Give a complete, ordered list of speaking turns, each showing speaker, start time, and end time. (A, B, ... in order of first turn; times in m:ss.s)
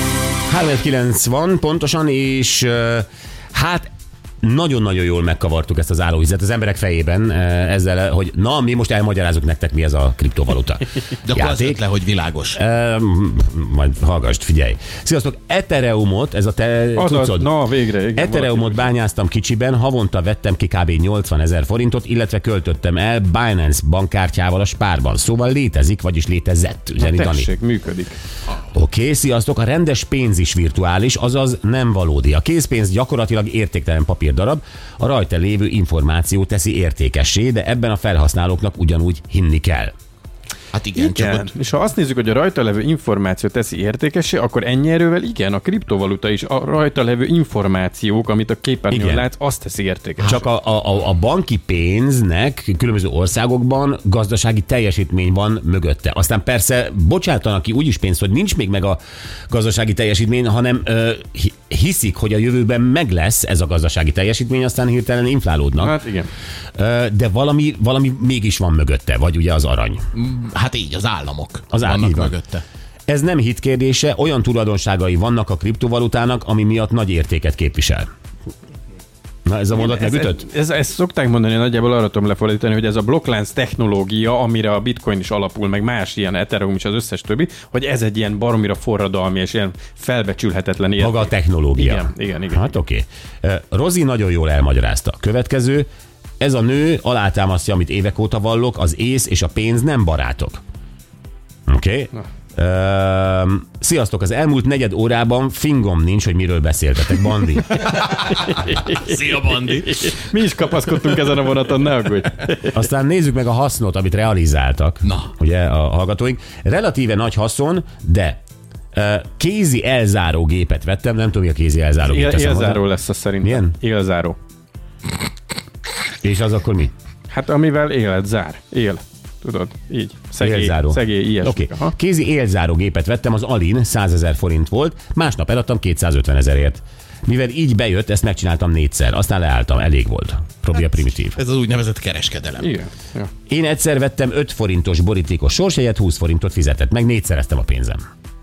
0:00.5-0:03.9 A
0:04.4-0:11.8 A
0:11.2-0:12.6 B
0:12.6-0:17.5 A
0:17.0-0:18.9 C
0:18.2-0:27.5 A
0:27.0-0:28.2 C
0:28.7-0:39.9 A
0:40.7-0:41.5 B
0:41.0-0:50.5 C
0:48.9-0:49.2 A
0:50.2-1:06.0 A
1:05.8-1:06.3 C
1:06.8-1:10.0 A
1:10.1-1:12.6 B
1:11.7-1:12.3 A
1:13.1-1:18.1 A
1:19.5-1:20.4 A
1:19.7-1:32.7 C
1:31.0-1:35.9 A
1:36.4-1:40.6 A
1:41.7-1:47.8 A
1:48.0-1:50.1 B
1:48.5-1:49.0 C
1:49.9-1:52.7 C
1:52.7-1:58.4 A
1:55.0-1:55.3 B
1:58.9-2:02.8 A
2:02.1-2:04.4 C
2:03.4-2:03.8 A
2:06.2-2:06.9 A
2:07.3-2:12.0 C
2:10.4-2:21.4 A
2:21.4-2:22.7 B
2:22.6-2:23.3 C
2:23.5-2:28.0 A